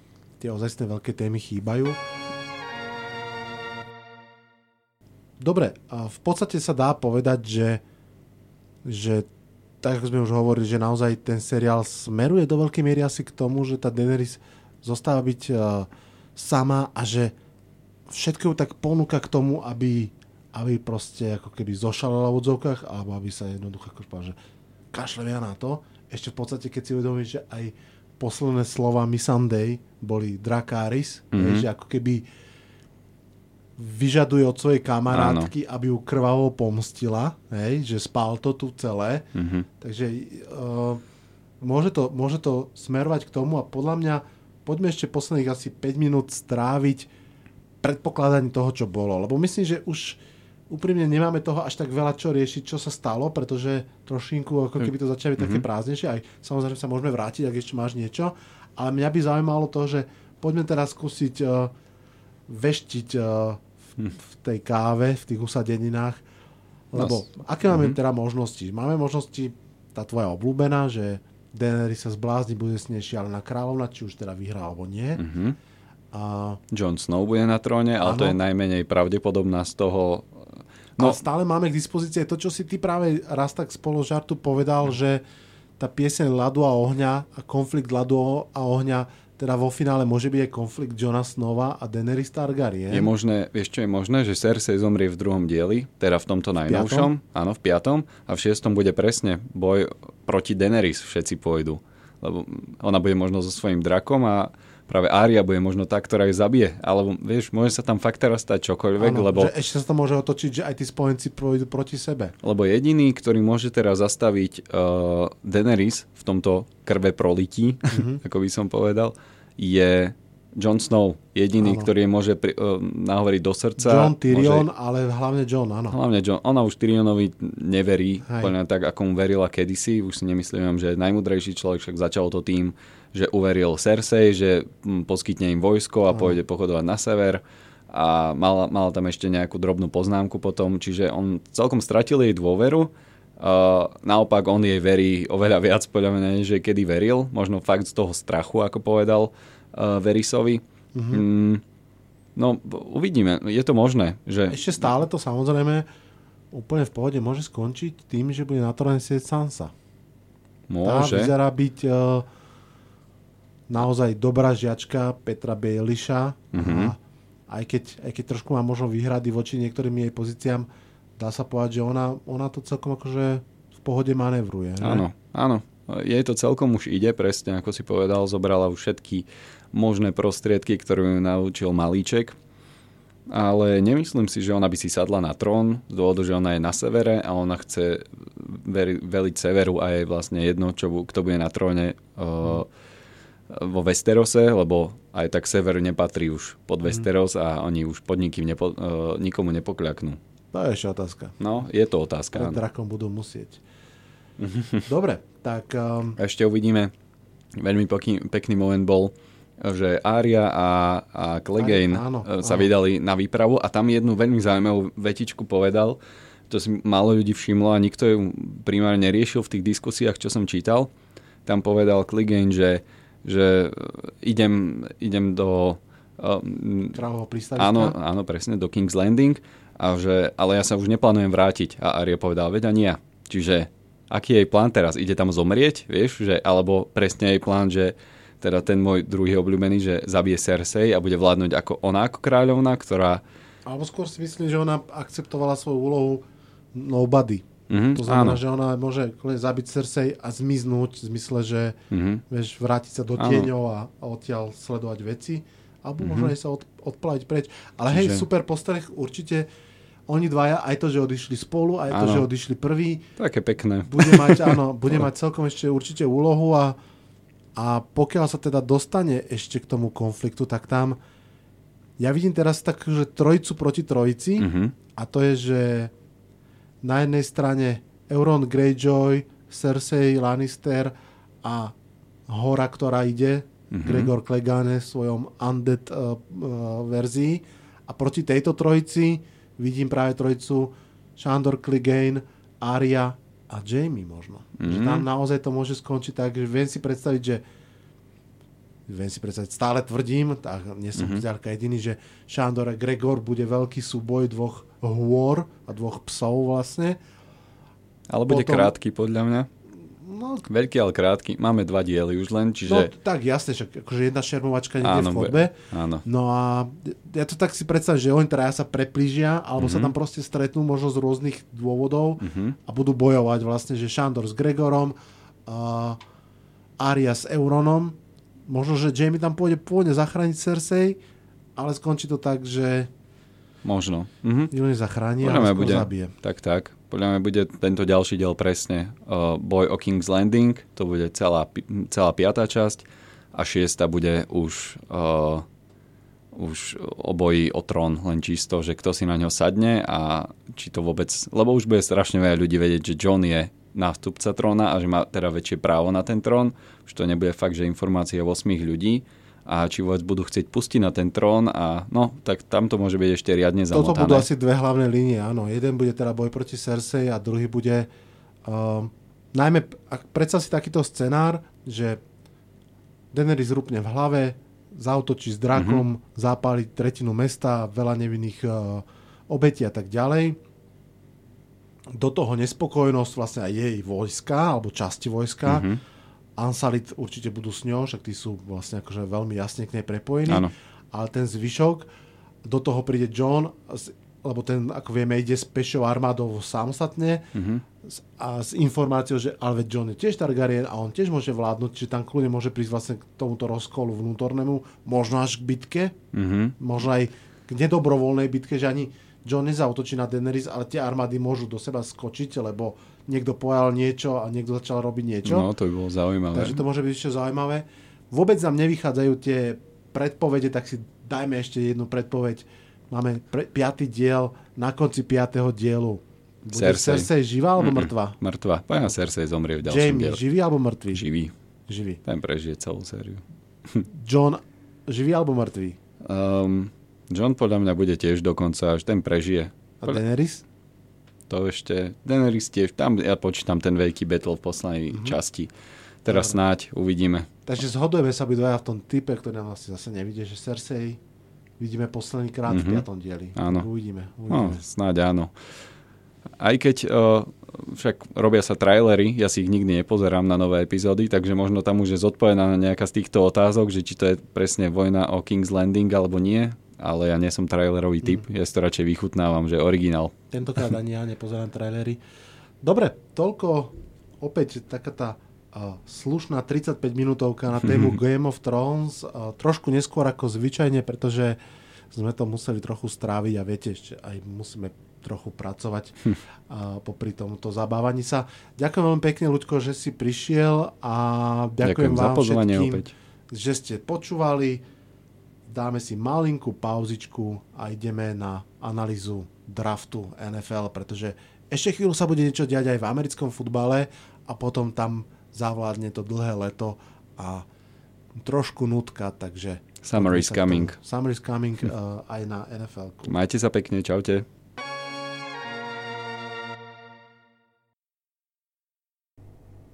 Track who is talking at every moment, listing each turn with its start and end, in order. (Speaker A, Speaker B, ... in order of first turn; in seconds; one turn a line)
Speaker A: 0.4-2.0
Speaker A: 5.4-7.8
Speaker A: 8.8-9.3
Speaker A: 9.8-17.3
Speaker A: 18.1-24.4
Speaker A: 24.9-32.2
Speaker B: 31.3-31.6
Speaker A: 33.8-39.3
Speaker B: 35.1-35.5
Speaker B: 39.3-39.6
Speaker A: 39.8-41.0
Speaker A: 41.6-47.1
Speaker A: 47.8-61.7
Speaker B: 55.4-55.6
Speaker A: 62.5-66.2
Speaker A: 66.9-75.2
Speaker B: 67.0-68.0
Speaker B: 75.2-75.6
Speaker A: 76.1-76.6
Speaker B: 76.7-80.4
Speaker A: 78.0-78.4
Speaker A: 81.0-85.2
Speaker A: 85.8-93.1
Speaker B: 92.9-109.5
Speaker A: 96.7-97.1
Speaker A: 109.0-112.3
Speaker B: 112.4-124.7
Speaker A: 117.9-118.2
Speaker A: 121.6-121.9
Speaker A: 123.8-126.0
Speaker B: 125.9-151.6
Speaker A: 128.2-128.5
Speaker A: 150.9-151.2
Speaker B: 152.3-154.6
Speaker A: 154.5-155.8
Speaker A: 156.5-159.7
Speaker B: 160.7-161.3
Speaker A: 160.8-162.2
Speaker A: 163.7-170.7
Speaker B: 166.5-166.9
Speaker A: 171.2-175.0
Speaker B: 174.8-182.4
Speaker B: 183.3-192.7
Speaker B: 193.5-200.2
Speaker A: 200.5-201.4
Speaker B: 201.4-202.6
Speaker A: 202.3-203.6
Speaker B: 204.4-204.8
Speaker A: 204.8-206.2
Speaker B: 206.2-206.9
Speaker B: 207.5-216.0
Speaker A: 211.6-212.7
Speaker B: 216.5-220.9
Speaker B: 221.4-227.0
Speaker A: 226.9-227.9
Speaker B: 227.6-243.2
Speaker A: 243.7-246.2
Speaker A: 246.7-251.8
Speaker B: 247.7-248.4
Speaker B: 251.9-252.2
Speaker A: 252.3-259.5
Speaker B: 253.2-253.5
Speaker B: 256.0-256.3
Speaker B: 257.9-258.2
Speaker A: 260.1-263.1
Speaker B: 261.9-262.2
Speaker B: 263.2-264.6
Speaker A: 263.9-266.8
Speaker A: 267.6-271.0
Speaker A: 272.0-275.9
Speaker B: 274.4-274.8
Speaker A: 276.8-281.7
Speaker A: 282.3-297.4
Speaker B: 283.7-284.1
Speaker B: 294.6-295.1
Speaker A: 298.9-307.0
Speaker B: 301.0-301.2
Speaker B: 308.1-309.5
Speaker A: 308.3-308.7
Speaker A: 310.0-310.4
Speaker B: 310.4-312.9
Speaker A: 312.6-324.9
Speaker B: 314.8-316.0
Speaker B: 319.6-319.9
Speaker B: 322.2-322.6
Speaker A: 325.5-326.0
Speaker A: 326.8-328.0
Speaker A: 328.5-331.0
Speaker A: 331.6-332.9
Speaker B: 333.6-334.5
Speaker A: 334.5-336.1
Speaker B: 335.2-345.4
Speaker B: 346.3-364.3
Speaker A: 363.7-367.9
Speaker A: 368.4-372.0
Speaker A: 373.1-380.4
Speaker B: 375.5-375.8
Speaker A: 381.9-385.7
Speaker B: 385.4-385.8
Speaker A: 386.4-391.9
Speaker B: 390.3-390.5
Speaker A: 392.4-397.3
Speaker B: 397.3-397.6
Speaker A: 397.8-405.9
Speaker B: 406.1-406.6
Speaker A: 406.6-415.5
Speaker B: 415.2-416.6
Speaker A: 416.3-428.2
Speaker B: 426.5-430.2
Speaker A: 429.6-431.1
Speaker B: 430.9-431.3
Speaker A: 431.7-432.0
Speaker B: 432.0-433.2
Speaker A: 433.9-435.8
Speaker B: 436.0-440.0
Speaker A: 439.8-440.4
Speaker B: 441.3-445.5
Speaker A: 444.9-445.2
Speaker B: 446.0-447.3
Speaker A: 446.1-446.4
Speaker A: 447.4-451.0
Speaker A: 451.6-454.6
Speaker B: 452.5-452.8
Speaker B: 453.4-453.6
Speaker B: 454.3-455.3
Speaker B: 456.4-470.1
Speaker A: 470.3-472.0
Speaker A: 472.6-481.4
Speaker B: 477.6-478.0
Speaker A: 481.9-485.9
Speaker A: 486.5-494.6
Speaker B: 491.6-492.9
Speaker A: 495.5-507.4
Speaker A: 508.1-513.1
Speaker B: 509.8-510.8
Speaker B: 513.1-514.2